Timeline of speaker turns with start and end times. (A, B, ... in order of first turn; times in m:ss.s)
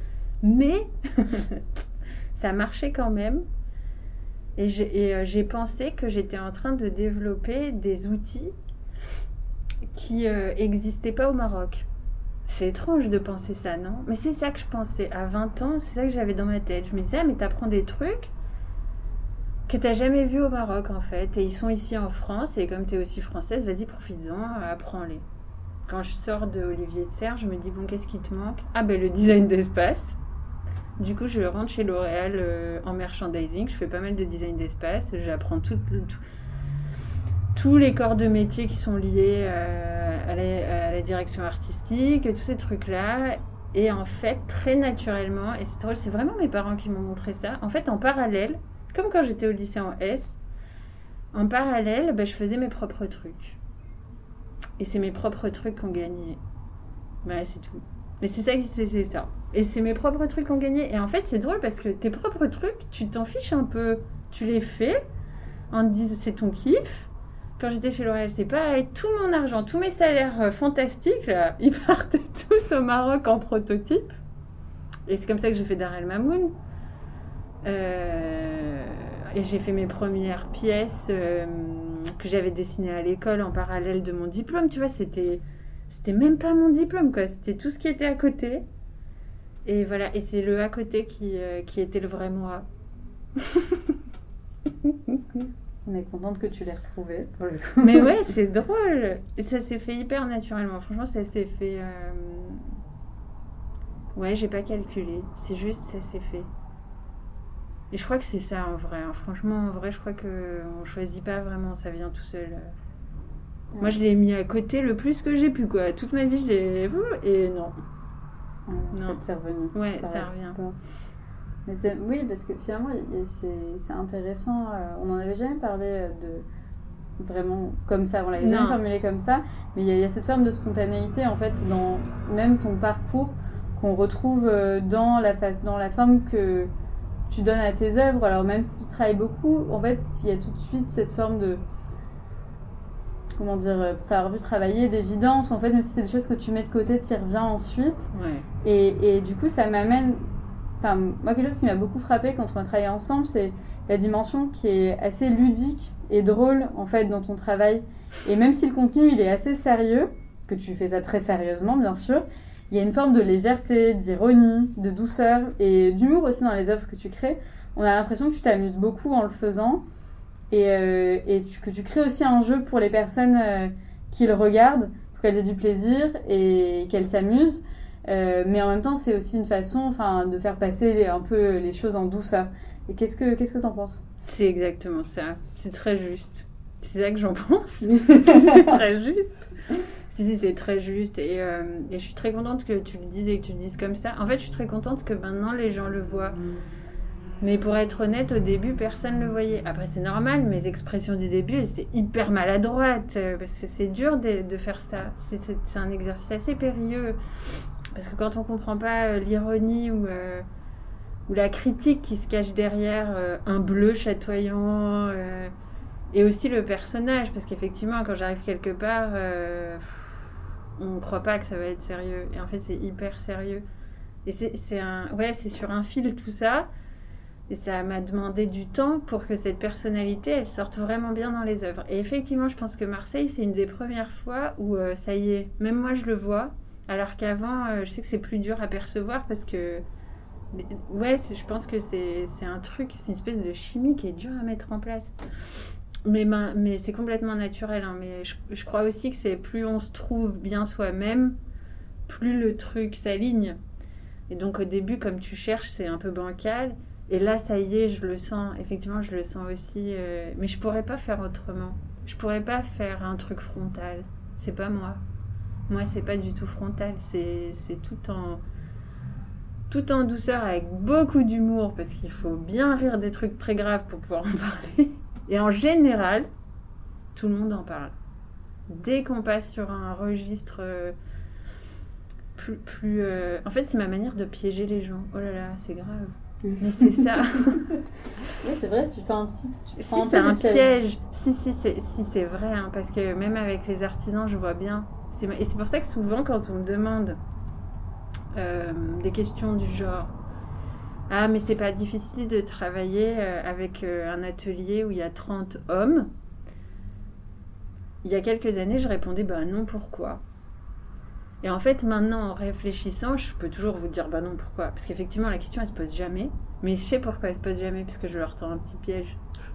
0:00.4-0:01.6 A
0:02.4-0:03.4 A
0:04.6-0:08.5 A
0:09.9-0:11.9 A
0:12.5-0:18.3 A
0:19.7-0:25.2 A
0:25.9-0:30.2 A
0:31.0-0:36.2 A
0:37.5-0:50.4 A
0:51.3-0:53.6 A
0:54.8-0:56.4 A
0:57.2-1:05.0 A
1:05.7-1:14.1 A
1:15.1-1:16.5 A
1:17.6-1:28.6 A
1:29.7-1:32.6 A
1:33.4-1:33.9 A
1:34.9-1:35.2 A
1:35.8-1:38.2 B
1:37.8-1:42.7 A
1:44.2-1:46.5 A
1:47.9-1:52.7 A
1:53.7-1:54.0 B
1:53.8-1:57.8 A
1:58.7-2:00.8 B
1:58.9-1:59.2 A
1:59.7-2:00.6 A
2:01.7-2:06.5 B
2:07.2-2:16.7 B
2:08.4-2:08.8 A
2:17.3-2:21.6 B
2:23.4-2:28.1 B
2:28.1-2:28.5 A
2:28.6-2:30.2 B
2:30.8-2:49.8 B
2:50.5-3:04.0 B
3:04.3-3:09.5 A
3:08.1-3:08.8 B
3:10.1-3:16.4 A
3:17.4-3:27.2 A
3:27.9-3:30.5 A
3:31.3-3:35.5 A
3:36.1-3:43.6 A
3:44.2-3:46.7 A
3:47.5-3:59.8 A
4:00.5-4:05.1 A
4:06.0-4:11.4 A
4:12.1-4:13.6 A
4:14.3-4:25.0 A
4:25.7-4:28.4 A
4:29.7-4:36.3 A
4:37.2-4:37.9 A
4:38.7-4:41.0 A
4:42.4-4:47.7 A
4:46.8-4:47.8 B
4:48.4-4:50.7 B
4:49.8-4:57.2 A
4:58.4-5:00.1 A
5:01.1-5:06.1 A
5:08.0-5:10.2 A
5:11.4-5:19.2 A